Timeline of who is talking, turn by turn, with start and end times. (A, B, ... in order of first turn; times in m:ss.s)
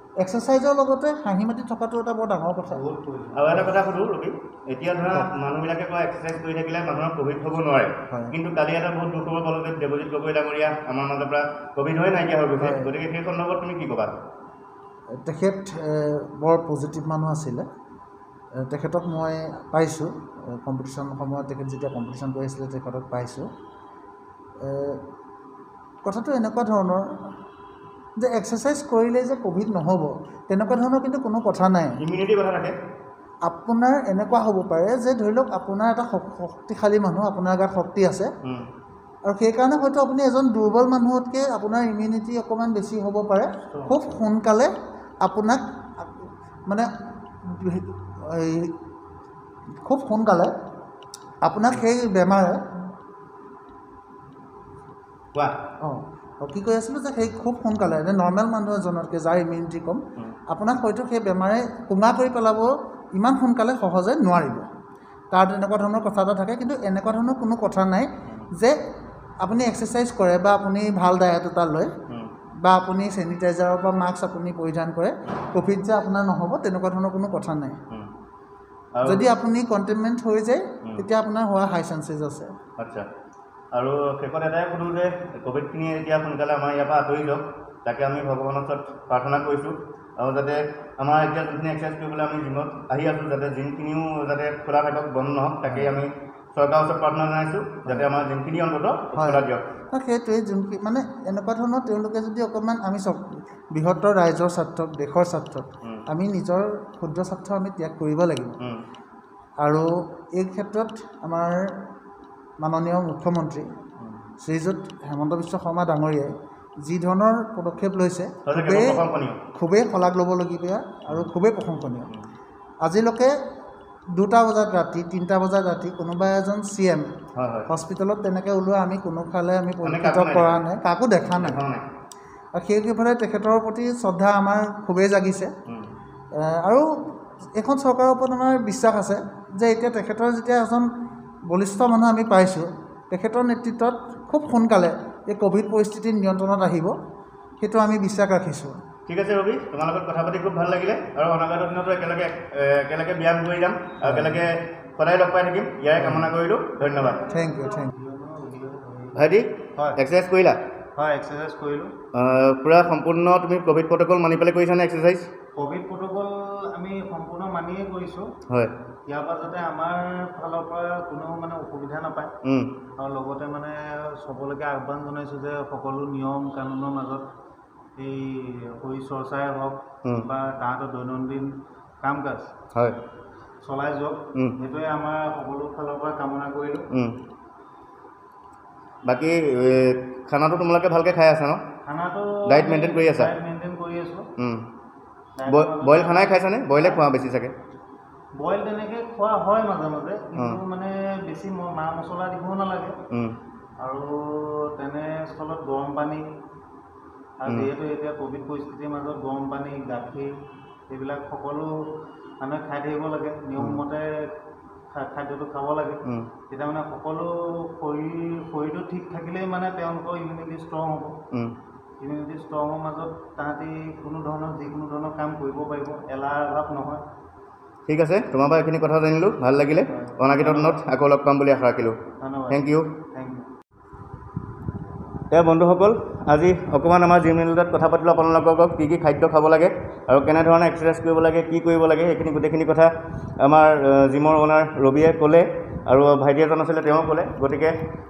0:00.2-0:02.8 A
0:02.7-0:03.7 B
0:03.3-0:14.2 C
0:08.1-0:08.3 A
0:12.6-0:12.9 A
0:15.2-0:17.6 A
0:18.6-0:23.5 A
0:24.6-0:25.0 A
0:26.0-0:27.2 A
0:28.2-0:32.0 A
0:32.0-0:32.7 C
0:33.4-0:38.3 A
0:39.2-0:44.7 A
0:43.7-0:44.0 B
0:45.2-0:46.9 A
0:47.4-0:48.7 A
0:49.8-0:50.5 A
0:51.4-0:52.6 A
0:55.8-1:04.7 A
1:05.3-1:08.8 A
1:09.4-1:11.9 A
1:12.6-1:17.8 A
1:18.9-1:19.3 C
1:19.0-1:22.5 A
1:22.8-1:23.0 C
1:23.7-1:39.6 C
1:39.1-1:48.6 A
1:49.6-1:51.8 A
1:52.6-1:53.7 A
1:54.4-1:59.0 A
1:58.4-1:59.4 C
1:59.5-2:02.1 A
2:02.8-2:03.3 A
2:04.1-2:07.1 A
2:07.3-2:07.7 C
2:07.7-2:11.6 A
2:09.8-2:10.6 C
2:11.4-2:11.8 C
2:12.5-2:15.5 A
2:16.3-2:16.8 A
2:17.6-2:20.9 A
2:21.5-2:26.9 A
2:27.6-2:28.8 A
2:29.1-2:37.2 C
2:34.0-2:34.4 A
2:36.0-2:36.3 B
2:36.8-2:39.2 B
2:37.3-2:37.9 A
2:39.1-2:40.6 C
2:41.0-2:41.9 B
2:42.1-2:45.3 C
2:45.6-2:48.3 B
2:49.1-2:52.3 B
2:52.4-2:52.7 C
2:53.0-2:57.3 B
2:58.0-3:02.5 B
3:03.6-3:06.9 B
3:06.9-3:07.2 C
3:09.0-3:11.6 C
3:11.8-3:14.3 B
3:12.4-3:13.3 C
3:14.4-3:14.7 C
3:15.4-3:17.0 B
3:15.5-3:17.5 C
3:18.3-3:23.0 B
3:23.1-3:23.4 C
3:23.8-3:26.3 B
3:27.4-3:31.9 B
3:32.4-3:34.3 B
3:34.9-3:41.2 B
3:36.0-3:36.3 C
3:42.0-3:47.0 B
3:47.9-3:52.9 C
3:49.9-3:50.8 B
3:52.2-3:53.5 B
3:55.3-4:07.8 C